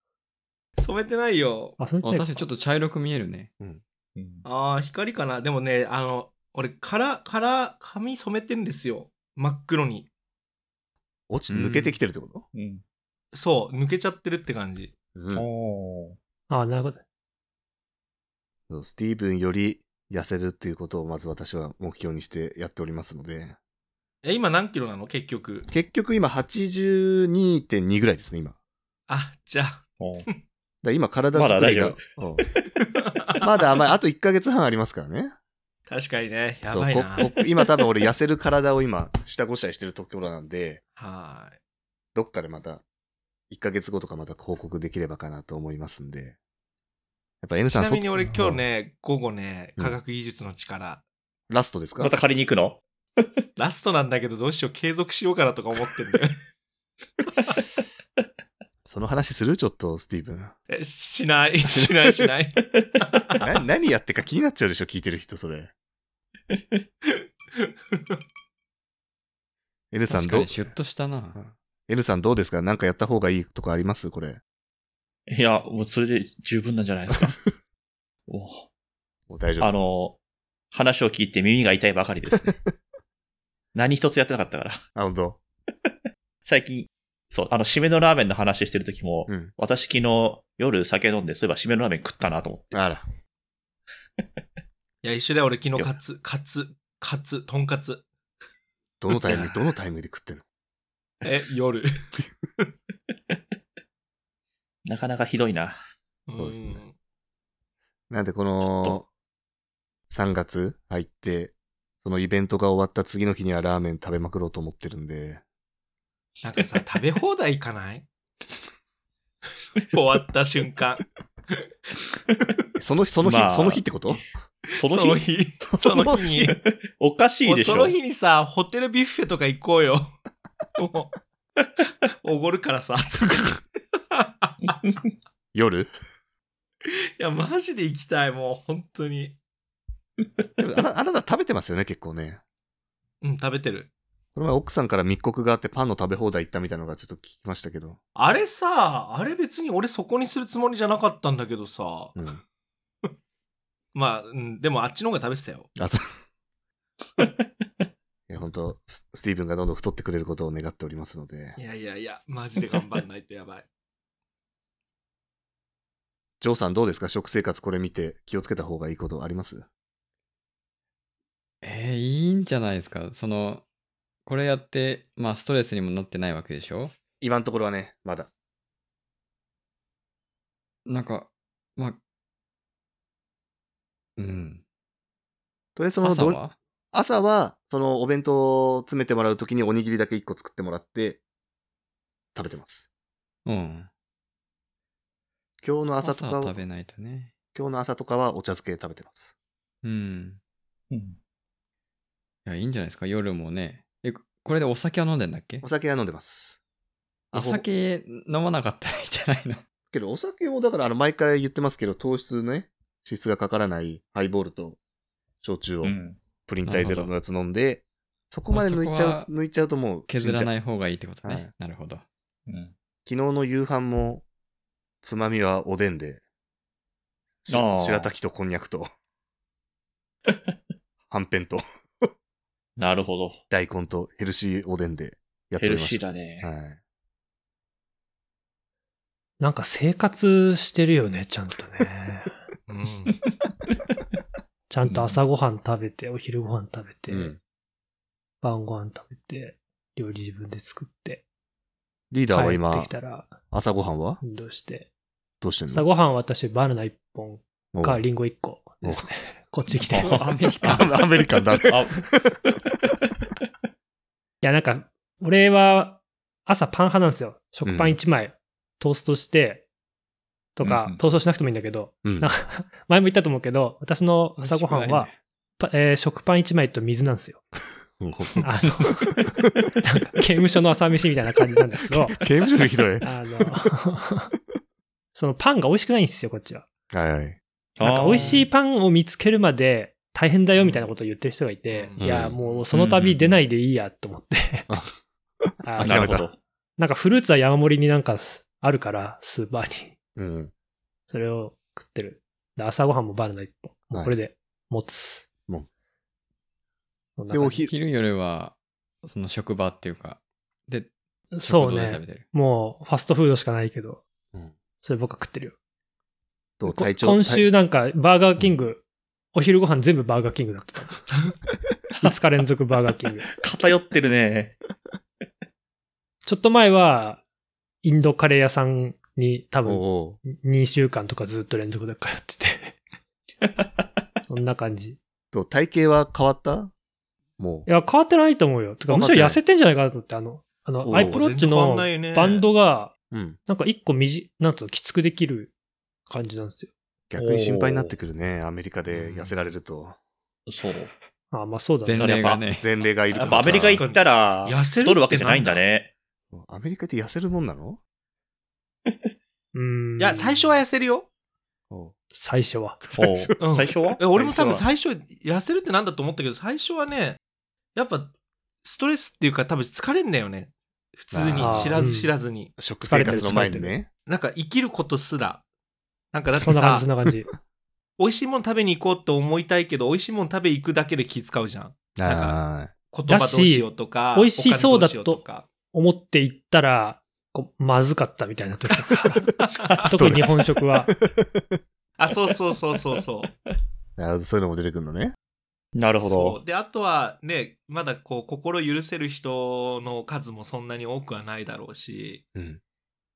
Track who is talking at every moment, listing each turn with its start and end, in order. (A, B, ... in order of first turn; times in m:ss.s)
0:00.8-0:01.8 A
0:01.8-0:02.3 B
0:02.0-0:03.5 C
0:04.2-0:04.4 D
0:04.4-0:10.1 A
0:11.3-0:12.5 E
0:11.5-0:12.0 C
0:12.5-0:12.8 D
0:13.3-0:14.9 A
0:15.2-0:15.5 E
0:15.3-0:16.2 D
0:16.5-0:17.0 B
0:18.7-0:23.6 E
0:24.2-0:25.7 A
0:25.7-0:28.6 E
0:29.1-0:29.8 A
0:30.0-0:30.3 D
0:30.8-0:32.4 E
0:31.3-0:32.0 D
0:33.0-0:33.4 A
0:33.4-0:35.3 E
0:35.9-0:37.4 A
0:36.7-0:40.8 E
0:41.0-0:41.6 A
0:42.2-0:42.8 E
0:43.5-0:46.4 E
0:47.4-0:48.6 E
0:47.7-0:51.0 A
0:51.5-0:52.1 E
0:52.0-0:53.3 D
0:53.6-0:56.4 A
0:58.8-1:00.5 E
1:00.7-1:03.4 A
1:03.4-1:05.7 E
1:07.1-1:07.7 A
1:09.9-1:10.7 E
1:10.1-1:11.4 C
1:11.4-1:14.4 E
1:15.3-1:17.4 D
1:18.3-1:18.7 D
1:19.3-1:19.7 E
1:19.6-1:20.2 D
1:20.7-1:22.6 D
1:23.7-1:24.8 D
1:25.0-1:25.4 E
1:26.4-1:32.8 D
1:32.7-1:33.0 E
1:35.0-1:38.0 A
1:39.0-1:40.4 E
1:41.2-1:41.9 A
1:44.9-1:45.8 D
1:46.3-1:46.9 A
1:46.4-1:46.8 E
1:48.1-1:49.1 E
1:50.1-1:55.4 E
1:56.4-1:58.0 A
1:59.9-2:01.0 A
2:02.8-2:04.2 E
2:03.2-2:04.2 D
2:04.8-2:05.2 D
2:04.8-2:06.5 A
2:05.7-2:06.5 E
2:06.5-2:07.9 D
2:07.4-2:10.1 A
2:10.8-2:11.1 A
2:12.1-2:14.8 A
2:15.5-2:15.9 E
2:16.8-2:19.4 A
2:20.6-2:22.4 E
2:23.2-2:23.9 A
2:24.4-2:28.0 E
2:28.2-2:32.2 A
2:32.2-2:32.4 E
2:33.9-2:35.7 A
2:35.8-2:36.0 E
2:38.3-2:41.6 E
2:41.6-2:43.6 A
2:46.4-2:49.7 E
2:51.6-2:53.6 C
2:54.2-2:56.9 C
2:57.2-2:58.3 E
3:00.9-3:02.0 C
3:04.2-3:04.6 C
3:05.8-3:06.4 E
3:06.0-3:06.6 C
3:06.9-3:11.2 E
3:12.4-3:12.9 E
3:13.5-3:13.9 C
3:15.6-3:16.6 E
3:16.0-3:17.3 C
3:17.5-3:19.3 E
3:19.8-3:20.4 C
3:20.9-3:21.2 D
3:22.4-3:25.6 C
3:25.6-3:26.6 E
3:27.3-3:27.6 E
3:27.3-3:29.6 C
3:29.9-3:34.8 E
3:35.4-3:40.5 E
3:35.8-3:36.2 D
3:36.6-3:37.1 C
3:38.5-3:39.3 C
3:40.1-3:42.0 C
3:41.2-3:41.5 E
3:42.5-3:42.7 D
3:43.1-3:44.2 E
3:45.0-3:46.2 E
3:47.4-3:48.9 E
3:47.5-3:48.1 D
3:51.1-3:51.6 E
3:52.8-3:53.4 D
3:53.5-3:56.8 E
3:55.6-3:56.5 D
3:59.4-4:02.3 B
4:02.7-4:03.1 A
4:04.7-4:07.4 B
4:04.9-4:05.2 D
4:07.1-4:07.4 E
4:08.4-4:11.2 B
4:12.1-4:12.9 E
4:12.3-4:13.4 B
4:13.5-4:14.2 E
4:14.2-4:14.9 B
4:15.4-4:15.9 E
4:15.7-4:20.3 B
4:17.7-4:18.0 E
4:18.8-4:19.1 E
4:19.8-4:20.8 D
4:19.9-4:20.9 C
4:20.6-4:22.4 E
4:21.7-4:22.1 D
4:24.4-4:29.7 B
4:27.6-4:28.0 E
4:30.6-4:37.5 B
4:30.6-4:31.0 D
4:32.0-4:32.3 E
4:34.4-4:35.2 C
4:38.0-4:38.4 E
4:38.4-4:39.1 B
4:39.8-4:42.2 B
4:42.1-4:43.5 E
4:43.0-4:44.3 B
4:45.2-4:46.7 B
4:46.9-4:47.4 E
4:47.8-4:48.5 D
4:47.8-4:54.7 B
4:48.1-4:48.4 E
4:51.7-4:52.7 A
4:52.0-4:52.4 E
4:52.7-4:53.3 D
4:55.4-4:56.3 E
4:55.6-4:56.2 B
4:55.8-4:56.4 D
4:56.8-4:59.9 B
5:00.2-5:00.5 E
5:01.1-5:05.3 B
5:07.2-5:07.7 B
5:07.3-5:07.7 E
5:07.7-5:10.9 C
5:11.3-5:14.0 B
5:11.4-5:12.3 C
5:14.8-5:15.6 B
5:16.6-5:17.5 E
5:16.7-5:21.1 B
5:22.0-5:23.3 B
5:23.3-5:24.6 D
5:26.2-5:27.2 B
5:27.8-5:32.8 B
5:29.6-5:30.2 E
5:34.3-5:35.0 B
5:35.3-5:36.7 E
5:37.4-5:37.7 E
5:37.7-5:42.9 B
5:38.9-5:39.4 E
5:40.8-5:41.2 E
5:40.9-5:42.5 A
5:43.1-5:43.4 E
5:43.5-5:45.5 B
5:46.1-5:46.7 B
5:47.1-5:50.0 E
5:47.2-5:47.9 D
5:48.9-5:49.3 D
5:50.5-5:50.9 D
5:51.3-5:52.1 B
5:51.8-5:52.7 C
5:52.0-5:52.4 D
5:52.6-5:53.8 E
5:53.1-5:55.9 D
5:53.6-5:55.6 A
5:56.3-5:57.8 E
5:59.5-6:00.5 B
6:00.0-6:01.1 A
6:01.7-6:02.0 E
6:02.1-6:02.8 B
6:02.8-6:04.7 E
6:02.9-6:04.0 D
6:03.4-6:07.2 A
6:07.8-6:08.1 A
6:08.6-6:12.6 A
6:11.1-6:11.9 E
6:11.4-6:12.1 B
6:12.6-6:13.9 E
6:12.9-6:13.8 B
6:14.1-6:15.4 A
6:16.1-6:16.9 A
6:16.4-6:17.3 B
6:18.0-6:22.4 A
6:22.0-6:22.7 E
6:22.9-6:25.5 A
6:23.1-6:30.9 B
6:29.3-6:29.8 A
6:29.8-6:31.6 E
6:32.0-6:33.3 A
6:34.0-6:35.2 E
6:35.8-6:36.4 D
6:36.0-6:42.2 A
6:42.4-6:42.6 E